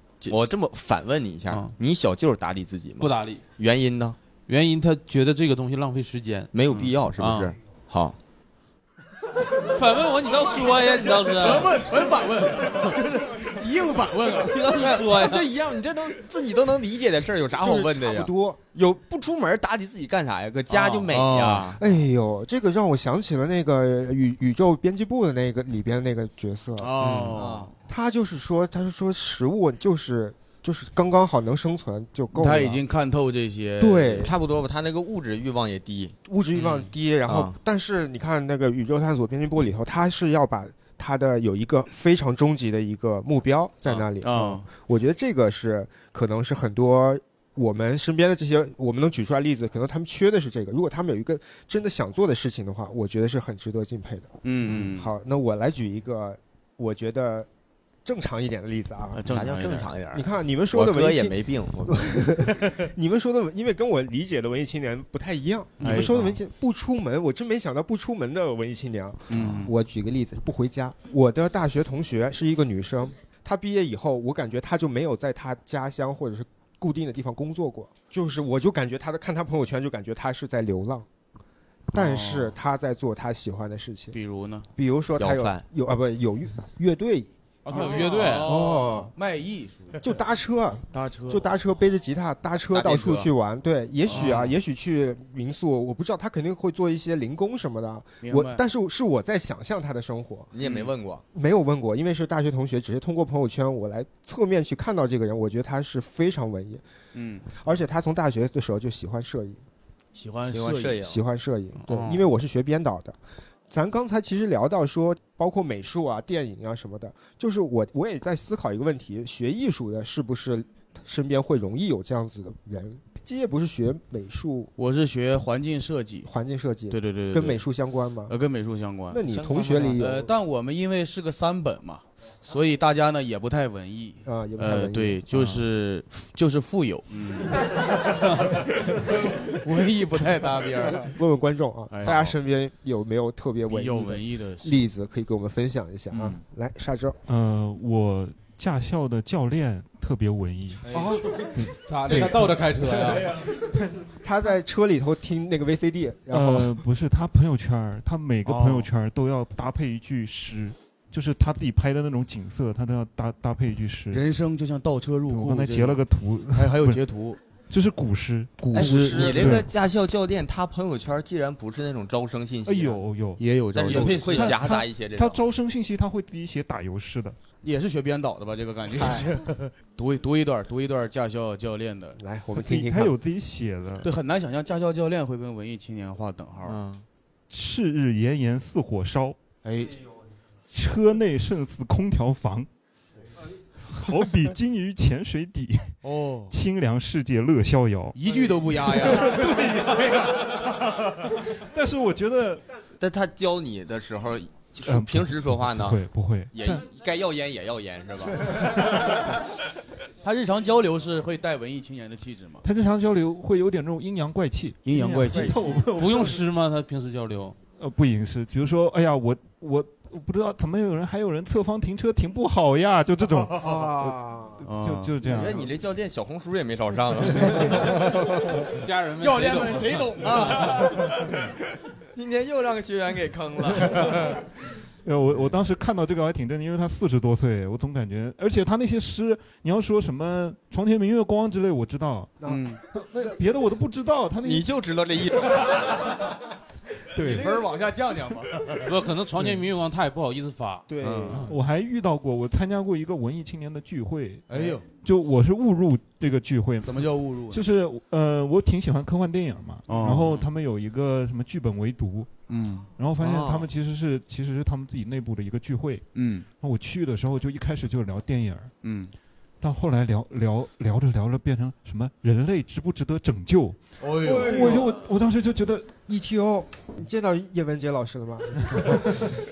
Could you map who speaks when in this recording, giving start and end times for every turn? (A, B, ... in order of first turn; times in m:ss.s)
0:00.3-0:04.2 A
0:03.0-0:03.4 B
0:04.5-0:06.5 B
0:06.5-0:08.2 A
0:07.2-0:07.6 B
0:09.6-0:11.9 B
0:11.3-0:14.6 C
0:14.4-0:15.5 B
0:14.7-0:21.8 A
0:17.6-0:18.6 D
0:20.7-0:21.8 C
0:21.8-0:27.0 D
0:26.8-0:27.7 C
0:27.1-0:27.7 A
0:27.9-0:32.8 D
0:32.3-0:34.3 C
0:33.8-0:34.3 D
0:34.2-0:36.2 A
0:36.2-0:57.5 D
0:36.6-0:36.9 C
0:37.3-0:37.5 A
0:43.9-0:44.7 C
0:54.4-0:55.1 C
0:58.0-0:59.2 D
0:59.1-0:59.9 C
0:59.3-1:02.2 A
1:00.1-1:21.1 D
1:05.8-1:06.4 C
1:09.3-1:09.7 C
1:21.9-1:24.2 D
1:21.9-1:22.5 C
1:24.1-1:24.7 C
1:24.8-1:29.1 D
1:25.2-1:25.6 A
1:27.7-1:28.6 B
1:27.7-1:30.0 C
1:30.0-1:40.5 D
1:30.9-1:31.5 C
1:32.8-1:33.1 A
1:34.1-1:34.5 C
1:38.2-1:38.6 C
1:40.5-1:41.2 A
1:40.6-1:40.9 C
1:41.3-1:46.8 D
1:47.2-1:47.5 C
1:47.5-1:49.6 D
1:50.2-1:51.0 C
1:50.5-1:51.2 A
1:51.0-1:53.2 D
1:51.9-1:52.2 B
1:53.7-2:04.7 D
2:04.8-2:06.3 C
2:06.3-2:08.3 D
2:06.9-2:07.6 C
2:08.3-2:09.2 C
2:09.1-2:10.3 D
2:09.4-2:09.9 E
2:09.9-2:18.5 C
2:14.2-2:15.6 D
2:19.1-2:21.1 C
2:21.0-2:27.2 D
2:21.9-2:22.4 C
2:23.7-2:24.9 C
2:26.1-2:26.4 C
2:27.3-2:30.9 E
2:30.8-2:31.2 C
2:30.9-2:31.4 D
2:31.7-2:33.4 B
2:32.1-2:32.4 C
2:34.2-2:36.8 D
2:36.3-2:44.2 E
2:38.4-2:38.9 C
2:44.1-2:47.4 C
2:45.3-2:47.0 E
2:47.7-2:49.7 E
2:48.6-2:49.5 C
2:48.7-2:49.6 D
2:48.7-2:53.0 A
2:52.6-2:57.4 E
2:53.4-2:54.4 C
2:53.7-2:55.4 A
2:53.9-2:54.6 B
2:57.6-3:02.2 C
2:59.0-2:59.3 D
3:02.2-3:03.2 D
3:02.5-3:04.1 E
3:04.0-3:06.8 C
3:06.6-3:07.0 A
3:07.5-3:09.4 E
3:09.6-3:10.0 C
3:10.7-3:12.7 E
3:13.9-3:16.0 E
3:16.0-3:16.5 C
3:16.5-3:20.6 E
3:18.1-3:21.1 C
3:21.4-3:22.6 E
3:23.0-3:28.8 A
3:24.8-3:26.9 E
3:30.2-3:32.6 C
3:32.6-3:36.4 E
3:34.8-3:35.7 C
3:35.2-3:35.7 D
3:35.9-3:37.6 B
3:37.8-3:45.7 E
3:43.6-3:44.6 D
3:44.6-3:45.3 C
3:45.2-3:48.0 A
3:48.7-3:50.9 B
3:49.2-3:50.9 C
3:52.2-3:54.3 A
3:55.0-4:02.4 E
4:02.4-4:03.4 D
4:02.4-4:02.8 C
4:03.1-4:04.7 E
4:04.4-4:06.1 A
4:07.2-4:07.6 E
4:07.2-4:08.9 C
4:08.8-4:10.9 B
4:10.9-4:11.5 D
4:11.0-4:11.5 C
4:11.3-4:22.4 E
4:14.5-4:14.9 C
4:16.8-4:17.6 C
4:19.9-4:20.5 C
4:22.5-4:22.9 C
4:23.0-4:26.1 E
4:23.4-4:23.7 A
4:26.1-4:26.5 C
4:26.6-4:28.7 E
4:28.8-4:29.1 C
4:29.6-4:35.9 E
4:34.0-4:35.0 C
4:34.2-4:34.8 D
4:36.1-4:39.4 D